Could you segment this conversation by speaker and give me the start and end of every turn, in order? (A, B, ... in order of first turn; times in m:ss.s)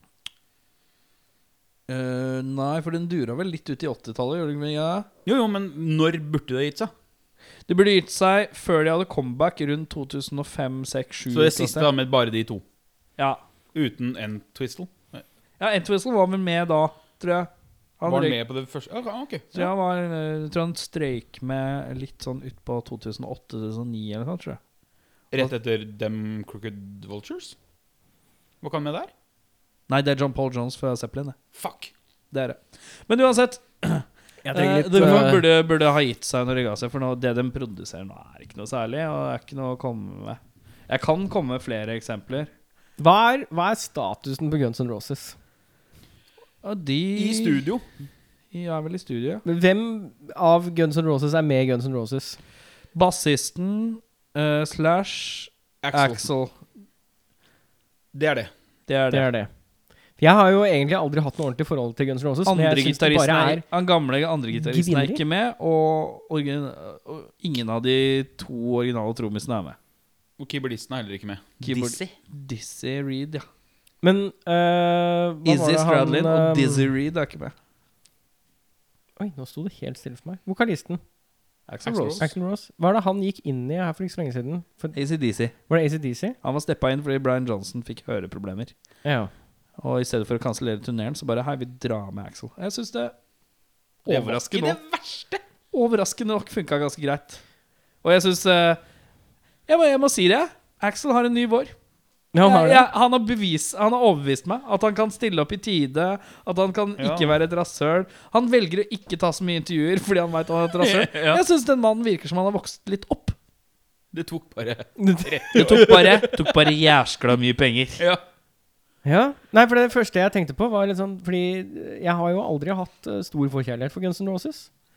0:01.9-0:05.1 A
0:05.2-0:06.9 B
0:07.7-0:11.9 A
0:11.3-0:12.6 B
0:13.7-0:15.2 B
0:15.6-0:18.4 A
0:18.0-0:19.7 B
0:19.5-0:24.6 A
0:25.3-0:27.6 B
0:28.6-0:29.1 B
0:29.9-0:31.4 A
0:31.5-0:31.9 B
0:32.3-0:42.5 A
0:34.4-0:35.4 C
0:43.0-0:45.4 C
0:46.6-0:47.7 A
0:47.1-0:47.8 B
0:48.5-0:49.4 A
0:49.4-0:52.4 C
0:52.9-0:56.6 A
0:55.8-0:56.2 B
0:58.1-0:58.5 B
0:58.9-0:59.3 A
0:59.1-0:59.5 C
1:00.2-1:03.6 C
1:02.5-1:09.8 A
1:04.5-1:05.2 C
1:10.4-1:12.1 B
1:11.6-1:13.4 A
1:14.0-1:16.9 C
1:15.4-1:17.5 A
1:19.2-1:21.0 C
1:21.7-1:22.3 A
1:21.8-1:22.3 B
1:22.2-1:25.0 C
1:24.9-1:25.5 A
1:25.7-1:26.4 C
1:26.4-1:28.7 A
1:29.0-1:29.3 C
1:29.8-1:33.1 A
1:34.0-1:34.8 A
1:34.1-1:35.4 B
1:35.7-1:37.4 A
1:38.0-1:38.8 A
1:39.7-1:41.7 A
1:42.3-1:42.9 C
1:42.4-1:53.3 A
1:47.0-1:47.4 B
1:50.8-1:51.4 B
1:54.1-1:56.2 B
1:55.0-1:56.4 C
1:55.5-1:58.0 A
1:59.0-2:04.7 C